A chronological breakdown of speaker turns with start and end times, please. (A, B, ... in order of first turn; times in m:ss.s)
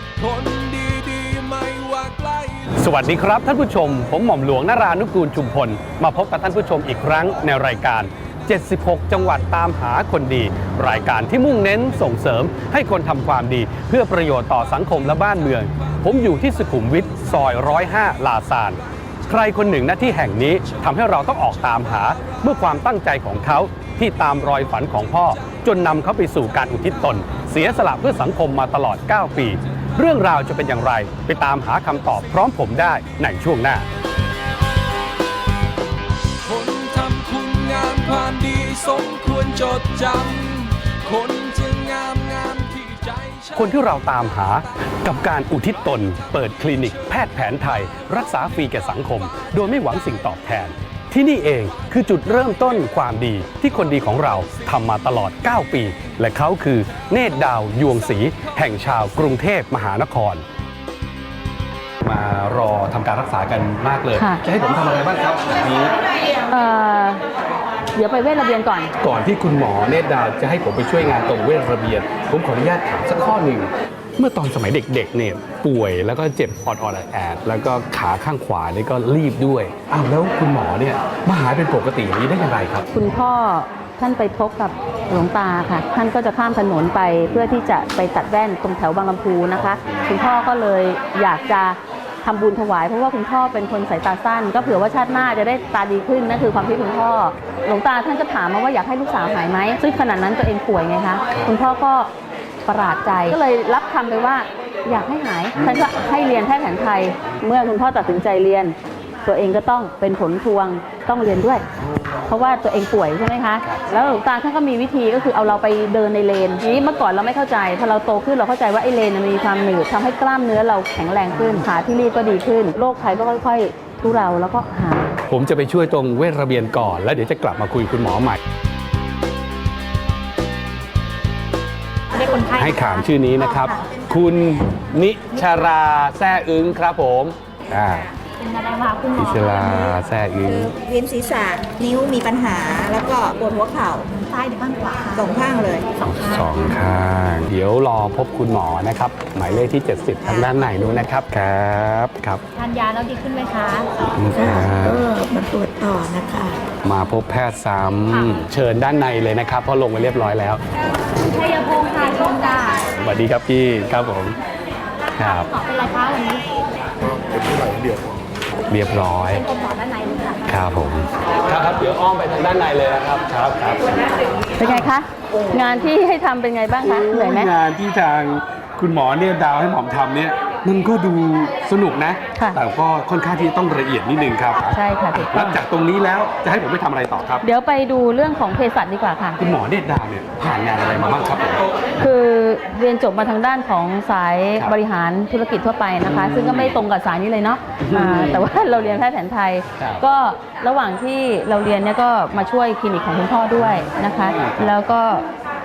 0:00.2-0:02.7 A
0:02.8-0:33.8 B
0:36.4-0:43.6 A
0:43.5-1:00.4 B
1:02.0-1:05.9 B
1:04.1-1:04.4 C
1:06.5-1:07.2 C
1:07.9-1:08.9 C
1:09.0-1:22.9 B
1:22.9-1:42.1 C
1:29.8-1:30.3 B
1:41.3-1:41.6 B
1:42.6-1:51.6 C
1:52.3-2:05.1 C
2:05.3-2:08.4 B
2:12.2-2:12.5 D
2:12.4-2:18.1 B
2:18.5-2:19.1 D
2:19.1-2:20.7 B
2:20.6-2:24.2 E
2:24.4-2:25.0 D
2:25.1-2:26.0 E
2:26.0-2:32.4 B
2:30.2-2:30.9 E
2:32.6-2:33.8 D
2:34.1-2:35.1 B
2:34.3-2:36.6 E
2:36.8-2:40.6 B
2:41.5-2:42.7 D
2:42.8-2:44.4 B
2:45.1-2:45.5 B
2:45.6-2:46.4 D
2:47.3-2:48.0 B
2:48.7-2:49.5 B
2:49.6-2:50.3 D
2:50.4-2:54.0 B
2:54.6-2:57.5 C
2:54.6-2:54.9 B
2:56.8-3:07.4 B
3:04.7-3:05.6 C
3:07.4-3:09.4 C
3:09.4-3:11.6 B
3:12.0-3:25.2 C
3:16.0-3:16.8 B
3:17.8-3:18.5 B
3:19.8-3:20.0 B
3:23.6-3:24.8 B